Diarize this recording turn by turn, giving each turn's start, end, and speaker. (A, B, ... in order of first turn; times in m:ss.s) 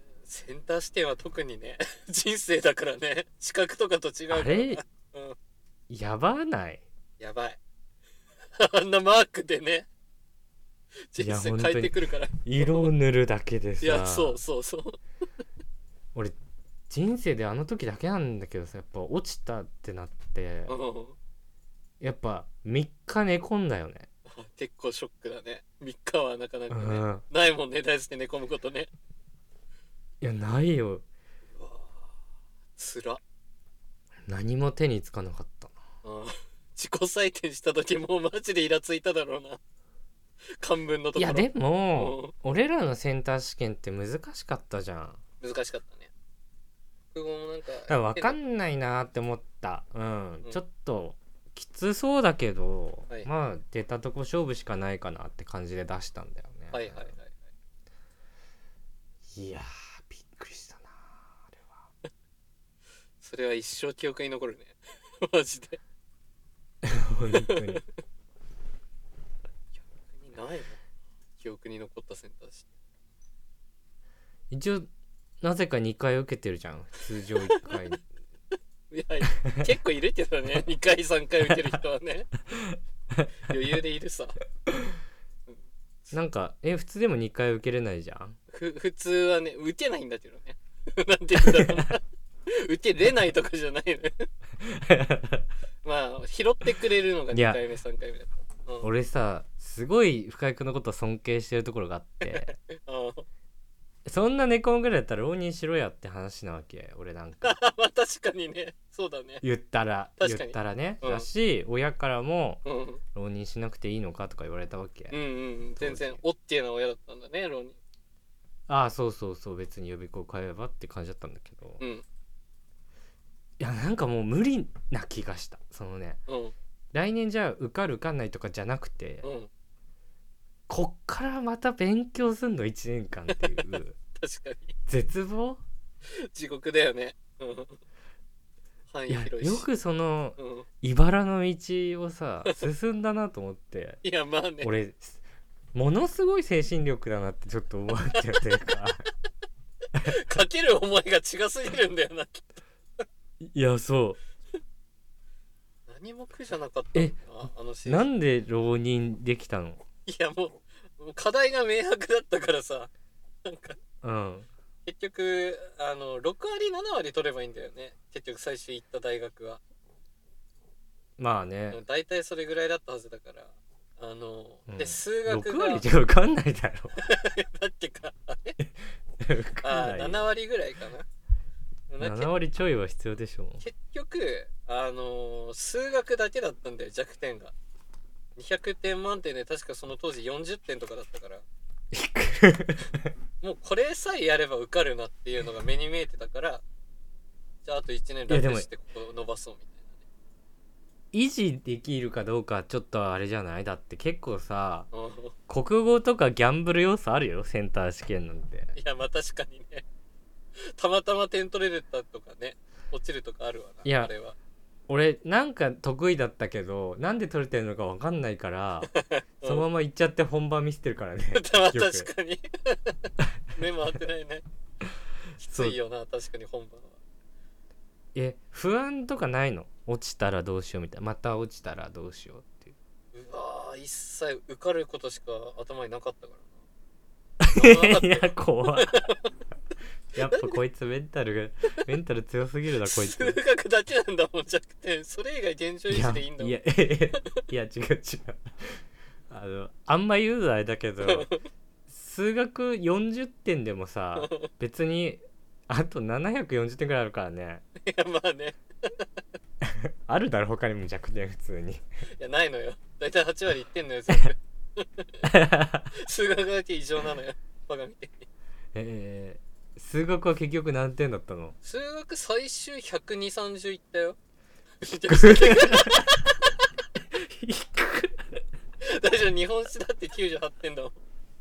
0:00.2-0:05.4 A
0:04.3-0:04.8 B
0:05.9-0:06.8 B
0:07.2-0:07.6 A
0:08.6-0:09.8 A
0:11.1-0:12.9 A
0:11.2-0:14.4 B
0:13.8-0:15.0 A
0:16.9-0:20.8 B
0:20.7-0:21.1 A
0:22.0-0:24.1 B
0:24.3-0:28.9 A
0:26.7-0:27.2 B
0:30.2-0:31.0 B
0:31.6-0:32.1 A
0:32.8-0:33.2 A
0:34.3-0:35.8 B
0:36.0-0:39.6 A
0:40.6-0:42.3 A
0:41.2-0:45.2 B
0:45.4-0:46.1 A
0:47.1-0:48.4 A
0:47.9-0:57.1 B
0:56.7-0:57.3 A
0:59.3-1:01.8 B
1:03.2-1:05.8 A
1:06.8-1:07.8 B
1:07.3-1:07.6 A
1:09.8-1:10.8 A
1:11.4-1:12.7 A
1:14.5-1:14.9 B
1:15.4-1:18.0 B
1:18.9-1:22.3 A
1:22.6-1:23.2 B
1:23.4-1:24.4 A
1:25.5-1:26.1 A
1:26.1-1:28.4 B
1:28.5-1:34.3 A
1:31.5-1:31.8 B
1:34.6-1:35.4 B
1:35.8-1:38.9 A
1:37.3-1:37.6 B
1:38.8-1:42.5 B
1:42.2-1:43.2 A
1:44.0-1:47.6 B
1:47.4-1:49.4 A
1:49.4-1:52.6 B
1:50.2-1:51.3 A
1:52.6-1:53.0 A
1:53.1-1:55.2 B
1:55.1-1:57.8 A
1:55.8-1:56.2 B
1:58.7-2:01.8 B
2:01.8-2:02.0 A
2:03.6-2:06.2 B
2:06.3-2:06.5 A
2:06.9-2:09.3 B
2:09.2-2:09.5 A
2:10.7-2:14.0 B
2:14.2-2:14.7 A
2:14.9-2:15.6 B
2:16.2-2:17.8 A
2:18.9-2:19.7 A
2:19.1-2:24.0 B
2:20.4-2:20.7 A
2:24.0-2:24.7 A
2:24.6-2:25.2 B
2:25.7-2:29.0 B
2:30.0-2:32.6 A
2:33.4-2:34.2 B
2:35.9-2:38.1 A
2:37.8-2:39.8 B
2:40.0-2:42.9 A
2:43.4-2:43.8 A
2:44.0-2:44.5 B
2:44.8-2:49.6 A
2:51.2-2:51.8 B
2:51.7-2:55.8 A
2:54.7-2:57.0 B
2:57.0-2:58.6 A
2:58.6-3:00.2 B
2:59.6-3:01.0 A
3:01.9-3:02.3 A
3:02.0-3:03.6 B
3:03.6-3:07.5 A
3:08.4-3:11.4 A
3:11.9-3:13.1 B
3:13.4-3:16.6 A
3:17.6-3:19.8 A
3:18.3-3:18.7 B
3:21.1-3:24.9 B
3:24.9-3:25.3 A
3:25.5-3:28.7 B
3:28.8-3:29.8 A
3:30.7-3:34.4 A
3:33.8-3:34.1 B
3:34.9-3:38.9 B
3:38.9-3:39.7 A
3:39.4-3:42.1 B
3:41.3-3:44.4 A
3:45.4-3:47.0 A
3:45.5-3:45.8 B
3:48.1-3:52.7 B
3:53.1-3:56.5 A
3:57.4-3:58.9 B
3:57.5-3:59.2 A
4:00.1-4:03.4 B
4:00.3-4:00.6 A
4:02.8-4:06.6 A
4:05.9-4:11.3 B
4:11.0-4:11.4 A
4:11.9-4:17.6 B
4:14.2-4:14.5 A
4:17.8-4:19.1 A
4:19.6-4:21.8 B
4:22.2-4:25.3 A
4:25.2-4:25.9 B
4:25.9-4:28.2 A
4:28.7-4:31.6 B
4:31.6-4:34.2 A
4:34.8-4:36.6 A
4:35.1-4:36.1 B
4:37.1-4:38.4 B
4:38.8-4:41.0 A